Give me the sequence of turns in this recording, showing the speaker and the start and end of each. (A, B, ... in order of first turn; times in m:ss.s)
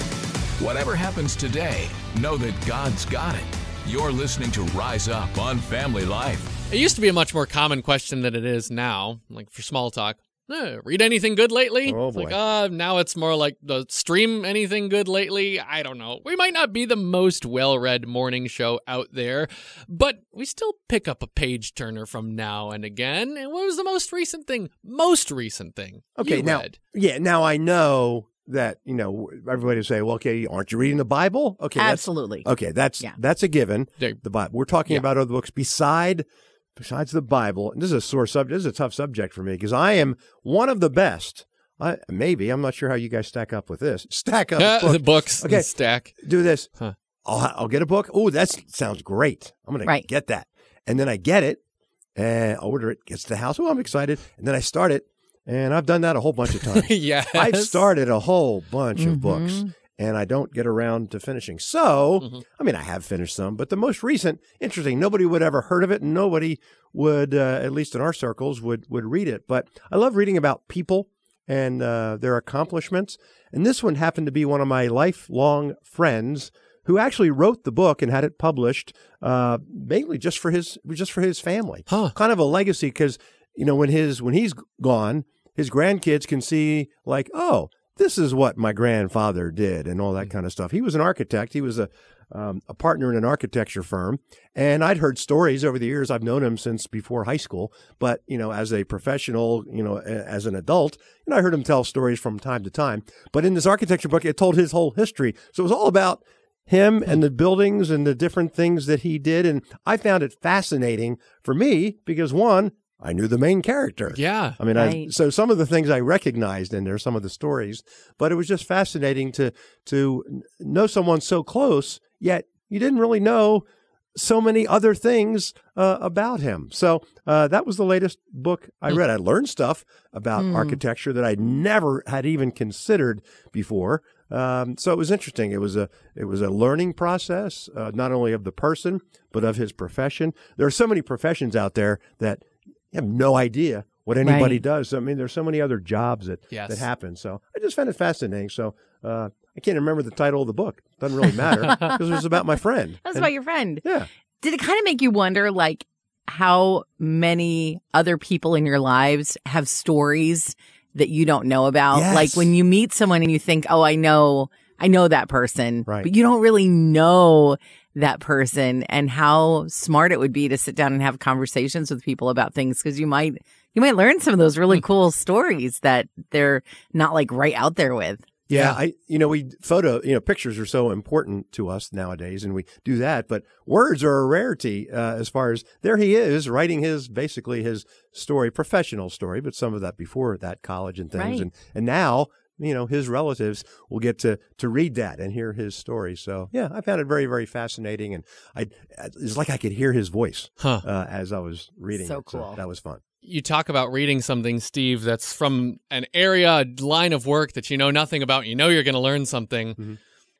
0:00.6-0:06.5 A
0:06.7-0:26.8 B
0:11.8-0:12.4 C
0:26.2-0:36.3 C
0:31.8-0:32.5 D
0:36.8-0:46.7 C
0:44.6-0:46.2 B
0:47.2-0:51.6 C
0:52.2-2:03.6 C
0:56.5-0:57.8 B
0:59.0-0:59.7 D
1:21.9-1:22.1 B
1:54.1-1:54.6 B
1:54.8-1:55.1 D
2:04.2-2:33.3 C
2:10.4-2:10.8 D
2:24.2-2:24.6 D
2:26.5-2:26.9 B
2:33.0-2:33.8 D
2:33.8-2:34.1 C
2:34.4-2:58.3 D
2:41.9-2:42.5 C
2:58.5-3:23.0 C
2:58.5-2:58.8 B
3:11.2-3:11.5 D
3:20.6-3:20.8 B
3:21.9-3:22.6 D
3:23.2-3:29.8 B